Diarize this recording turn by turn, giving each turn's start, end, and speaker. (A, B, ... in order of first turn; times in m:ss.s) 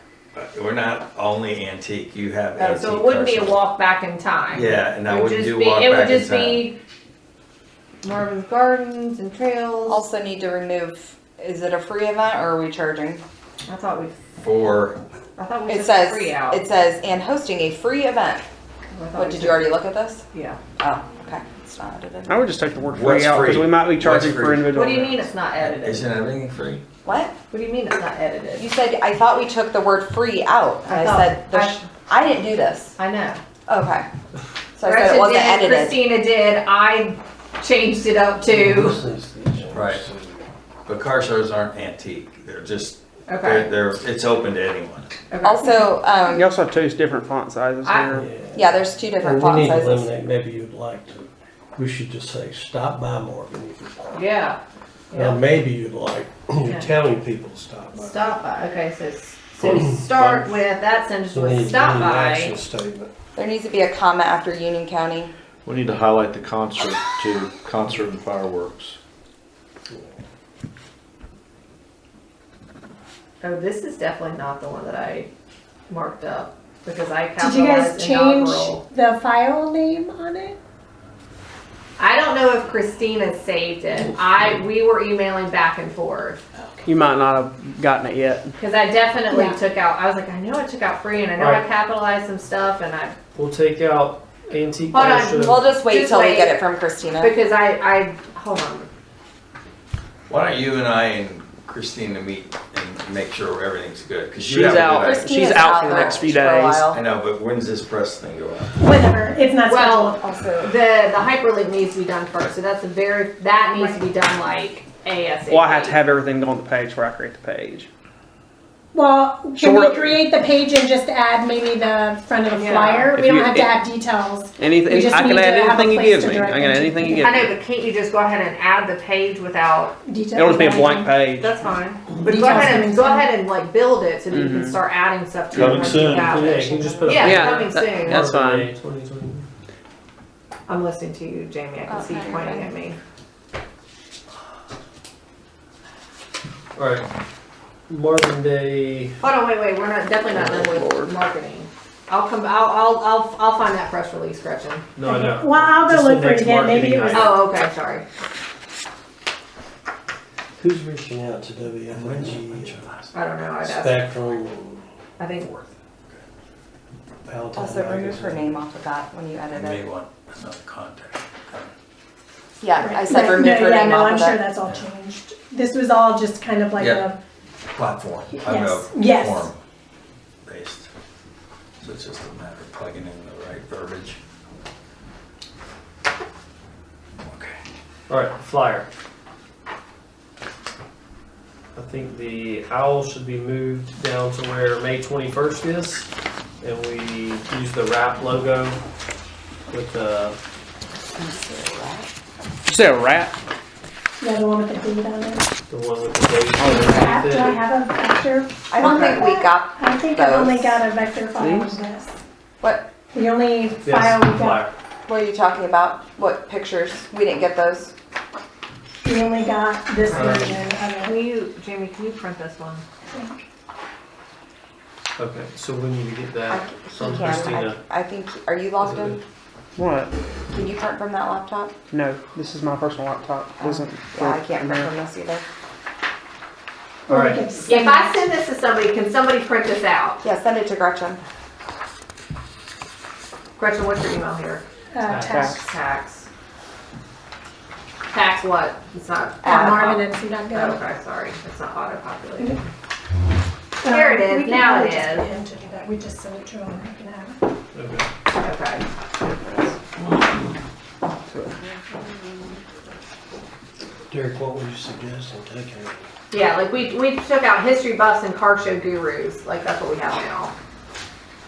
0:00.3-0:03.6 A
0:02.6-0:06.8 B
0:04.5-0:06.7 A
0:08.0-0:10.0 B
0:09.9-0:13.2 C
0:13.6-0:14.2 B
0:14.4-0:15.0 A
0:15.4-0:16.6 B
0:15.7-0:18.4 C
0:18.9-0:19.8 B
0:19.1-0:20.2 C
0:20.3-0:20.6 B
0:20.8-0:22.4 C
0:22.3-0:25.3 D
0:22.9-0:24.7 A
0:24.7-0:26.1 B
0:25.6-0:26.8 A
0:27.0-0:27.3 C
0:27.5-0:28.7 B
0:28.6-0:33.0 C
0:30.8-0:31.8 B
0:33.0-0:33.4 B
0:33.7-0:34.1 C
0:34.8-0:36.0 C
0:34.8-0:39.0 B
0:38.4-0:40.4 E
0:39.7-0:40.0 A
0:40.8-0:45.1 A
0:43.3-0:43.7 B
0:45.3-0:45.8 B
0:45.4-0:46.5 C
0:46.3-0:48.2 D
0:47.8-0:48.2 B
0:48.1-0:54.2 E
0:48.5-0:50.1 C
0:54.1-0:54.6 B
0:55.1-0:55.4 B
0:55.1-0:58.3 E
0:57.9-1:02.6 B
0:59.6-1:00.6 E
1:01.3-1:03.1 E
1:03.4-1:05.3 C
1:05.6-1:09.0 F
1:13.4-1:15.3 B
1:15.9-1:18.8 B
1:17.4-1:20.6 G
1:22.0-1:26.4 B
1:26.8-1:28.5 D
1:28.6-1:33.1 B
1:29.3-1:29.6 G
1:33.3-1:35.6 H
1:34.9-1:36.6 B
1:35.4-1:37.3 C
1:37.2-1:38.9 B
1:40.3-1:46.2 A
1:44.4-1:47.0 D
1:45.0-1:47.0 C
1:46.9-1:48.8 A
1:48.8-1:50.2 G
1:49.6-1:55.9 B
1:50.2-1:50.8 C
1:53.7-1:54.0 G
1:55.5-1:57.9 D
1:58.9-2:07.4 G
1:59.6-2:00.2 D
2:02.5-2:03.1 B
2:03.1-2:03.8 D
2:04.6-2:07.5 D
2:07.2-2:10.0 B
2:10.0-2:11.1 G
2:10.3-2:11.5 D
2:11.3-2:18.3 B
2:12.2-2:13.3 G
2:14.3-2:14.8 D
2:15.5-2:16.3 E
2:15.6-2:19.5 H
2:16.1-2:17.4 C
2:17.2-2:18.7 D
2:20.7-2:23.0 B
2:21.9-2:22.7 C
2:26.7-2:27.1 H
2:27.9-2:29.2 H
2:29.2-2:34.8 B
2:30.4-2:31.1 D
2:35.0-2:37.4 H
2:35.0-2:37.4 G
2:37.1-2:38.0 B
2:40.6-2:42.8 E
2:41.9-2:43.1 A
2:43.1-2:44.1 B
2:43.6-2:44.8 E
2:45.2-2:45.5 B
2:47.2-2:48.6 E
2:47.5-2:49.8 C
2:49.5-2:51.7 A
2:52.6-2:54.4 C
2:52.8-2:57.2 G
2:56.8-2:57.0 A
2:57.7-2:59.6 A
2:58.3-2:59.5 G
3:00.4-3:00.9 A
3:01.8-3:04.2 A
3:07.2-3:07.6 A
3:08.1-3:08.9 H
3:11.7-3:16.1 H
3:16.6-3:18.8 H
3:19.7-3:20.4 H
3:21.2-3:22.1 C
3:22.6-3:23.3 D
3:24.2-3:25.5 G
3:25.7-3:27.6 H
3:26.6-3:27.2 D
3:26.6-3:32.2 G
3:28.7-3:30.8 C
3:31.4-3:31.8 D
3:32.6-3:32.9 C
3:33.1-3:34.7 G
3:33.8-3:34.7 H
3:35.0-3:37.9 C
3:39.0-3:41.2 G
3:40.1-3:42.8 B
3:40.1-3:40.5 H
3:43.1-3:43.4 G
3:45.2-3:47.8 H
3:46.5-3:49.2 C
3:48.8-3:49.2 H
3:49.8-3:50.1 D
3:50.5-3:51.7 C
3:51.9-3:54.9 D
3:53.6-3:55.4 C
3:57.1-3:58.2 G
3:57.1-3:57.4 H
3:57.6-4:00.2 B
4:00.2-4:01.2 C
4:03.6-4:04.6 B
4:04.9-4:05.7 G
4:05.2-4:06.3 B
4:05.3-4:05.6 D
4:08.1-4:12.6 B
4:09.4-4:10.0 C
4:09.4-4:10.8 G
4:13.8-4:17.4 G
4:13.8-4:15.3 B
4:17.7-4:18.1 H
4:18.3-4:18.8 B
4:19.2-4:19.7 D
4:21.3-4:22.6 D
4:24.1-4:26.0 E
4:26.3-4:30.5 B